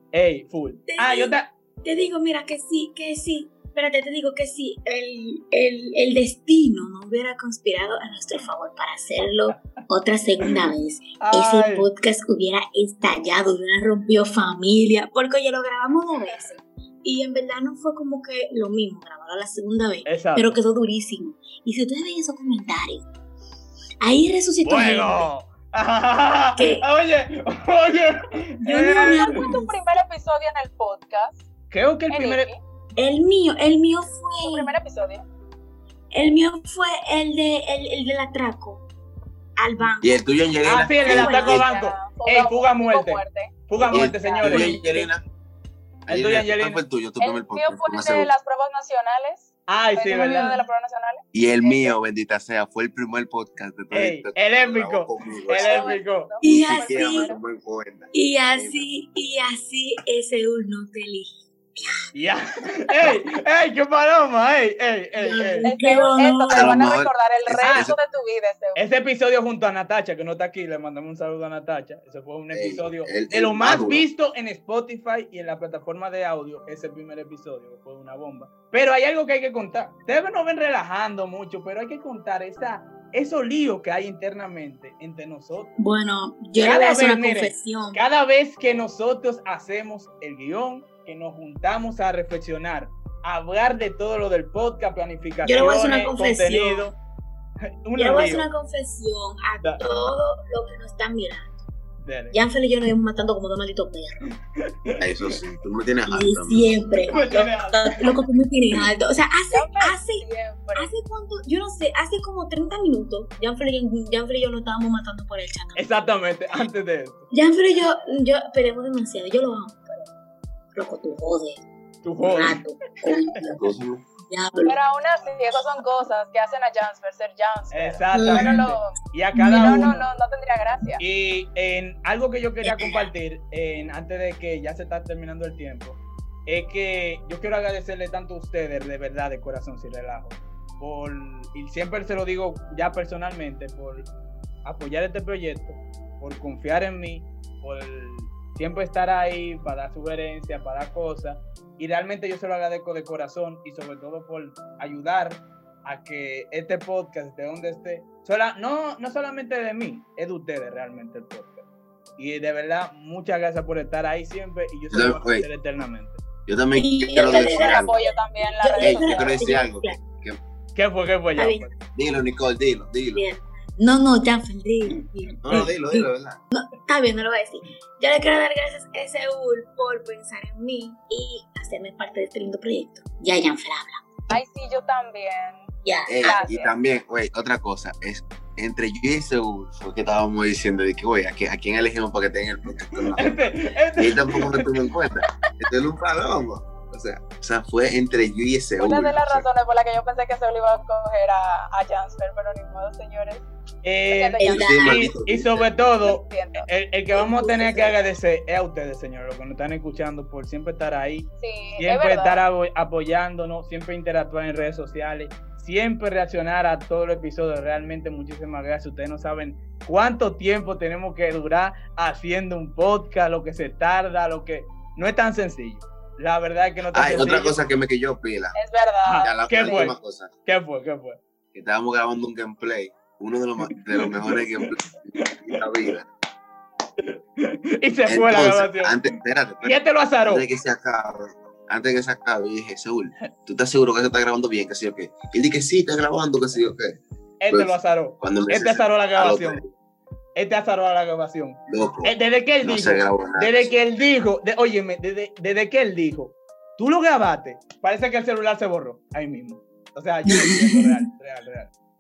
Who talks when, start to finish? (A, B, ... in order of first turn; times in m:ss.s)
0:00.1-0:01.5 A
0:00.9-0:23.1 B
0:09.5-0:09.8 A
0:11.2-0:11.9 A
0:20.1-0:20.6 A
0:24.0-0:25.3 B
0:24.6-0:29.3 A
0:26.6-0:26.8 B
0:28.6-0:30.0 B
0:29.0-0:31.5 C
0:31.7-0:32.5 A
0:32.1-0:32.6 C
0:33.0-0:34.7 B
0:34.4-0:35.2 C
0:36.1-0:38.8 B
0:39.6-0:40.2 B
0:40.0-0:41.7 D
0:40.6-0:45.1 A
0:40.8-0:44.8 C
0:43.9-0:45.2 D
0:46.1-0:48.3 D
0:46.1-0:46.8 A
0:47.2-0:52.0 C
0:49.7-0:50.5 A
0:50.1-0:50.7 B
0:51.3-0:58.8 D
0:53.9-0:56.4 A
0:55.5-0:57.4 C
0:56.4-0:57.3 B
0:58.1-1:02.0 B
1:02.1-1:05.7 A
1:05.2-1:06.8 B
1:05.6-1:08.8 C
1:06.5-1:08.0 D
1:08.8-1:25.8 A
1:12.5-1:14.1 D
1:25.8-1:28.0 B
1:26.6-1:36.9 A
1:35.4-1:37.0 B
1:37.8-1:38.5 A
1:38.0-1:41.5 B
1:39.6-1:40.0 A
1:42.0-1:42.4 A
1:42.3-1:44.3 B
1:44.8-1:45.2 A
1:45.0-1:46.9 D
1:46.1-1:55.9 B
1:47.1-1:48.1 A
1:49.5-1:50.9 C
1:55.8-1:57.3 A
1:57.3-2:00.1 B
2:00.7-2:01.6 B
2:02.0-2:02.6 A
2:02.2-2:03.6 B
2:03.5-2:04.0 D
2:04.2-2:04.8 B
2:04.7-2:09.0 C
2:07.7-2:10.1 A
2:08.1-2:08.6 B
2:09.4-2:09.9 B
2:09.5-2:11.0 C
2:11.0-2:24.1 A
2:12.6-2:13.1 B
2:24.6-2:41.7 A
2:42.2-2:46.2 A
2:44.9-2:45.5 D
2:46.5-2:48.0 D
2:46.7-2:50.0 B
2:47.2-2:49.5 C
2:48.8-2:50.4 D
2:50.8-2:51.8 A
2:51.4-2:51.7 B
2:52.0-2:53.2 D
2:53.1-3:04.0 B
2:55.4-2:56.4 D
3:04.3-3:05.6 C
3:05.8-3:06.4 B
3:06.1-3:13.4 D
3:06.2-3:06.7 C
3:13.2-3:14.7 A
3:14.0-3:19.5 D
3:18.8-3:23.5 C
3:23.8-3:47.6 A
3:24.1-3:24.9 C
3:24.4-3:25.1 B
3:24.5-3:26.1 D
3:26.0-3:26.7 C
3:27.1-3:28.0 B
3:31.4-3:32.4 C
3:46.9-3:48.6 D
3:48.6-3:49.8 C
3:49.0-3:51.2 A
3:49.2-3:50.3 D
3:51.5-3:56.1 D
3:53.7-3:54.6 A
3:55.2-3:55.6 A
3:57.0-3:59.0 A
3:58.1-4:07.0 D
3:59.6-4:00.5 A
4:07.4-4:09.6 A
4:07.5-4:09.7 D
4:10.4-4:21.7 A
4:11.7-4:13.8 D
4:20.3-4:20.9 B